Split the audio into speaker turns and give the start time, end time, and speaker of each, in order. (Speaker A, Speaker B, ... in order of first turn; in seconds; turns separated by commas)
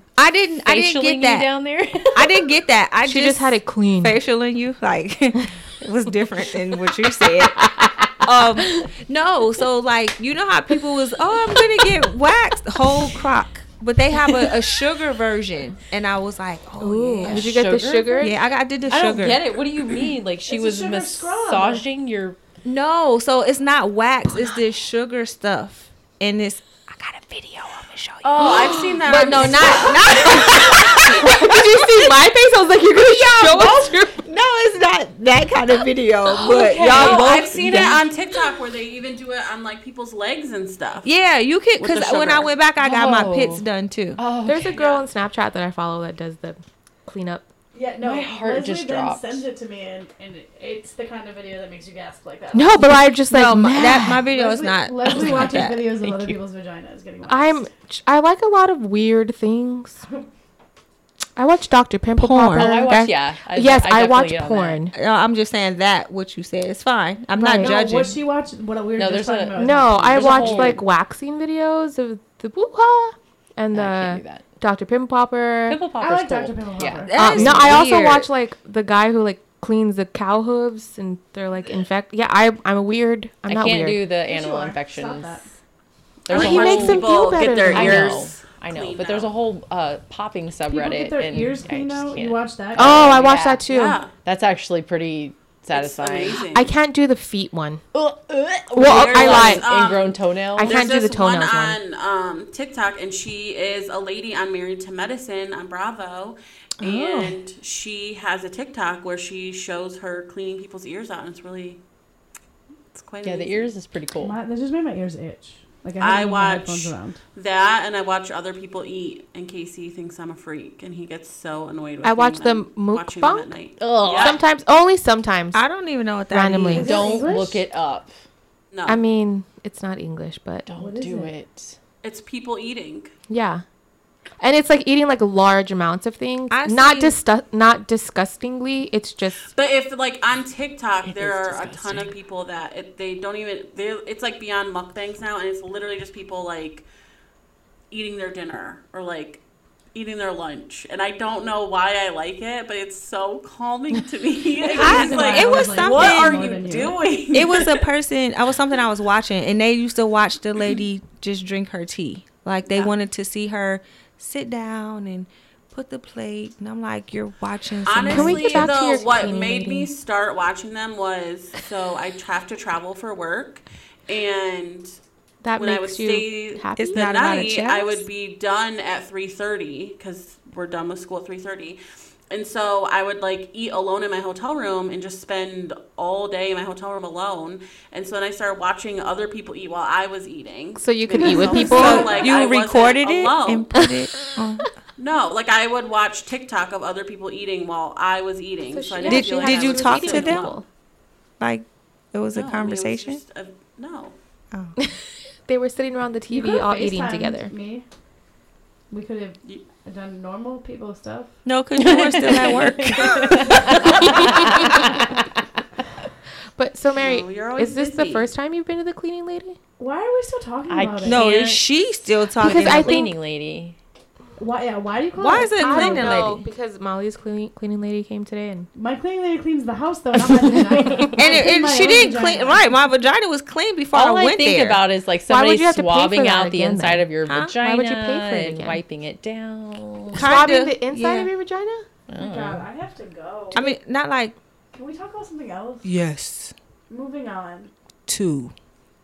Speaker A: 0.2-1.5, Speaker B: 0.6-2.5, Speaker A: 2.1-17.6, Speaker C: 3.0-4.2, Speaker B: 7.4-8.8, Speaker B: 14.1-14.8, Speaker C: 16.8-18.3, Speaker B: 17.2-22.4, Speaker A: 18.2-19.4, Speaker D: 20.5-21.8, Speaker A: 22.6-32.0, Speaker C: 24.3-24.6, Speaker E: 28.2-31.0, Speaker C: 30.3-34.2, Speaker A: 33.0-38.0, Speaker B: 36.3-38.0, Speaker E: 36.9-41.1, Speaker A: 41.0-44.2, Speaker E: 41.8-42.5, Speaker B: 42.8-43.6, Speaker B: 44.2-44.8, Speaker C: 44.5-47.5, Speaker D: 47.7-52.8, Speaker B: 48.0-49.5, Speaker C: 52.5-54.3, Speaker A: 53.3-56.4, Speaker D: 54.3-57.7, Speaker C: 57.3-60.0, Speaker C: 61.4-65.0, Speaker A: 62.2-63.1, Speaker B: 62.5-64.8, Speaker A: 64.9-68.2, Speaker C: 67.4-67.7, Speaker D: 67.6-70.8, Speaker B: 69.0-70.8, Speaker C: 69.6-75.8, Speaker B: 73.7-74.5, Speaker B: 75.7-77.6, Speaker D: 76.0-77.8, Speaker A: 77.1-78.3, Speaker C: 77.2-84.0, Speaker B: 83.5-85.5, Speaker D: 84.2-85.5, Speaker B: 86.3-87.1, Speaker E: 86.3-89.3, Speaker C: 86.3-88.3, Speaker B: 87.7-93.6, Speaker D: 90.7-93.2, Speaker C: 92.8-94.0, Speaker E: 93.7-94.1, Speaker B: 94.2-96.4, Speaker E: 95.7-96.7, Speaker C: 96.4-97.8, Speaker B: 97.9-100.9, Speaker C: 98.7-99.7, Speaker E: 98.8-111.8, Speaker C: 100.6-101.8, Speaker C: 106.8-107.3, Speaker E: 112.9-113.7, Speaker B: 113.2-114.4, Speaker D: 114.2-117.2, Speaker E: 116.0-124.4, Speaker C: 122.0-125.6, Speaker B: 123.8-124.4, Speaker A: 125.5-127.3, Speaker C: 126.3-127.0, Speaker B: 126.7-128.2, Speaker D: 126.8-127.6, Speaker E: 128.7-129.0, Speaker C: 128.9-130.7, Speaker B: 130.7-131.8, Speaker D: 130.8-131.3, Speaker E: 132.0-133.1, Speaker C: 133.3-133.6, Speaker C: 134.4-139.5, Speaker A: 136.5-137.2, Speaker E: 139.5-146.8, Speaker B: 141.0-142.2, Speaker E: 147.9-149.4, Speaker E: 149.9-157.9, Speaker D: 154.6-157.0, Speaker A: 154.7-156.8, Speaker A: 157.3-168.7, Speaker E: 167.8-175.0, Speaker C: 168.1-169.9, Speaker C: 175.4-177.6, Speaker E: 175.6-181.8, Speaker A: 176.8-178.0, Speaker E: 182.3-193.7, Speaker C: 190.8-192.2, Speaker D: 191.2-192.4, Speaker A: 191.6-194.7, Speaker E: 195.0-200.6, Speaker C: 198.7-200.7, Speaker A: 199.1-200.5, Speaker A: 201.4-203.2, Speaker E: 202.3-204.2, Speaker C: 205.5-207.5, Speaker D: 206.3-207.9, Speaker D: 208.9-211.3, Speaker A: 211.4-214.9, Speaker B: 211.8-215.2, Speaker C: 214.2-214.6, Speaker C: 216.6-219.6, Speaker E: 217.0-218.3, Speaker D: 219.8-221.3, Speaker B: 220.7-221.7, Speaker A: 221.1-223.1, Speaker C: 222.4-223.1, Speaker B: 222.4-223.8, Speaker D: 224.4-226.3, Speaker A: 225.2-226.4, Speaker C: 225.6-228.7, Speaker D: 228.8-232.7, Speaker A: 231.2-234.8, Speaker B: 233.9-240.3, Speaker C: 235.3-238.8, Speaker A: 237.3-237.5, Speaker C: 240.1-241.9, Speaker A: 240.1-241.3, Speaker B: 242.1-242.7, Speaker D: 242.2-243.8, Speaker A: 243.5-244.4, Speaker D: 244.7-245.9, Speaker A: 245.8-246.5, Speaker D: 246.9-247.7, Speaker A: 248.1-248.5